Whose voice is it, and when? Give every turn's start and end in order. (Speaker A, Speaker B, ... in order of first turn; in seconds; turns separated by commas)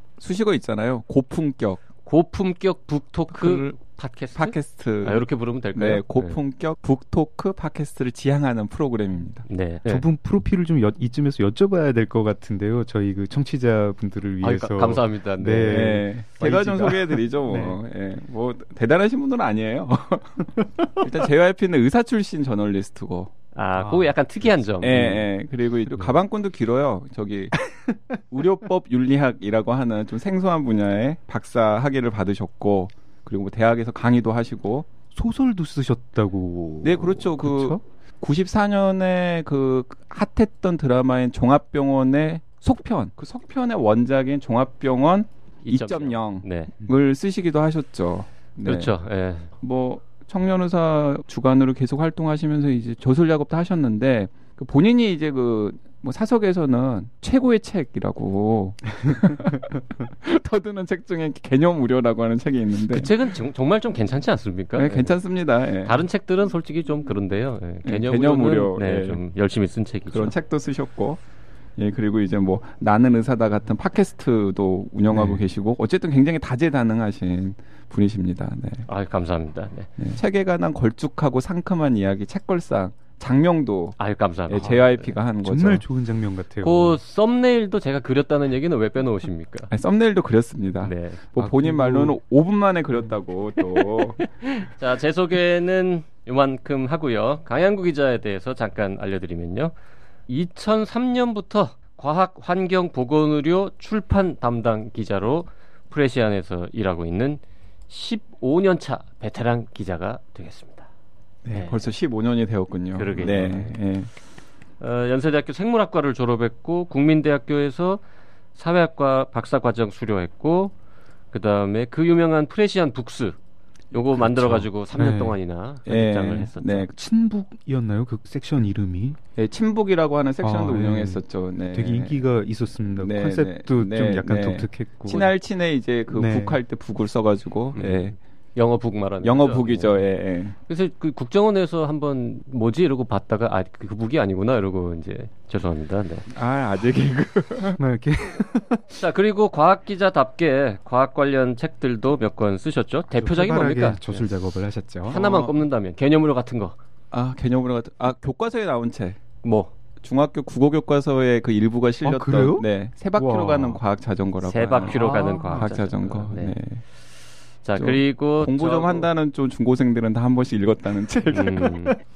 Speaker A: 0.2-1.8, Speaker B: 2.0-6.4, Speaker A: 3.3-3.8, Speaker A: 4.3-9.5, Speaker B: 9.5-10.1, Speaker C: 9.9-17.8, Speaker B: 14.4-16.0, Speaker A: 15.7-23.3, Speaker B: 23.5-25.3, Speaker C: 23.8-25.1, Speaker A: 24.8-27.6, Speaker C: 27.7-28.2, Speaker A: 28.3-34.9, Speaker C: 35.1-37.8, Speaker A: 36.8-48.9, Speaker B: 45.6-46.7, Speaker B: 48.6-49.5, Speaker A: 49.6-63.1, Speaker B: 62.9-65.2, Speaker A: 64.8-66.0, Speaker B: 65.8-70.3, Speaker A: 67.8-69.2, Speaker A: 70.1-71.2, Speaker A: 71.8-78.8, Speaker C: 75.1-75.4, Speaker B: 78.9-79.9, Speaker A: 80.0-84.0, Speaker B: 84.0-85.1, Speaker A: 84.5-85.8, Speaker C: 84.5-84.9, Speaker C: 85.4-87.0, Speaker B: 86.6-89.7, Speaker A: 89.7-94.2, Speaker B: 90.8-91.2, Speaker C: 91.4-92.2, Speaker B: 94.4-99.7, Speaker B: 100.3-110.9, Speaker A: 111.5-114.1, Speaker B: 111.5-111.8, Speaker B: 113.0-113.8, Speaker B: 114.8-118.0, Speaker B: 118.5-120.7, Speaker B: 121.3-123.4, Speaker B: 123.9-126.9, Speaker A: 124.0-124.6, Speaker C: 124.9-125.4, Speaker A: 125.9-126.9, Speaker C: 127.0-129.2, Speaker A: 129.4-132.2, Speaker C: 130.4-131.2, Speaker C: 131.7-135.3, Speaker A: 132.9-138.2, Speaker C: 136.1-136.6, Speaker B: 137.8-140.0, Speaker A: 139.2-140.6, Speaker B: 140.7-146.3, Speaker A: 146.3-147.8, Speaker C: 147.8-149.0, Speaker B: 148.9-154.2, Speaker C: 153.1-155.2, Speaker B: 155.1-156.8, Speaker A: 155.1-155.6, Speaker A: 157.1-159.2, Speaker B: 159.4-159.7, Speaker A: 160.0-166.8, Speaker C: 162.0-163.8, Speaker B: 164.4-166.6, Speaker C: 164.8-165.7, Speaker B: 167.6-169.1, Speaker A: 167.8-171.7, Speaker C: 171.1-171.9, Speaker B: 171.3-172.0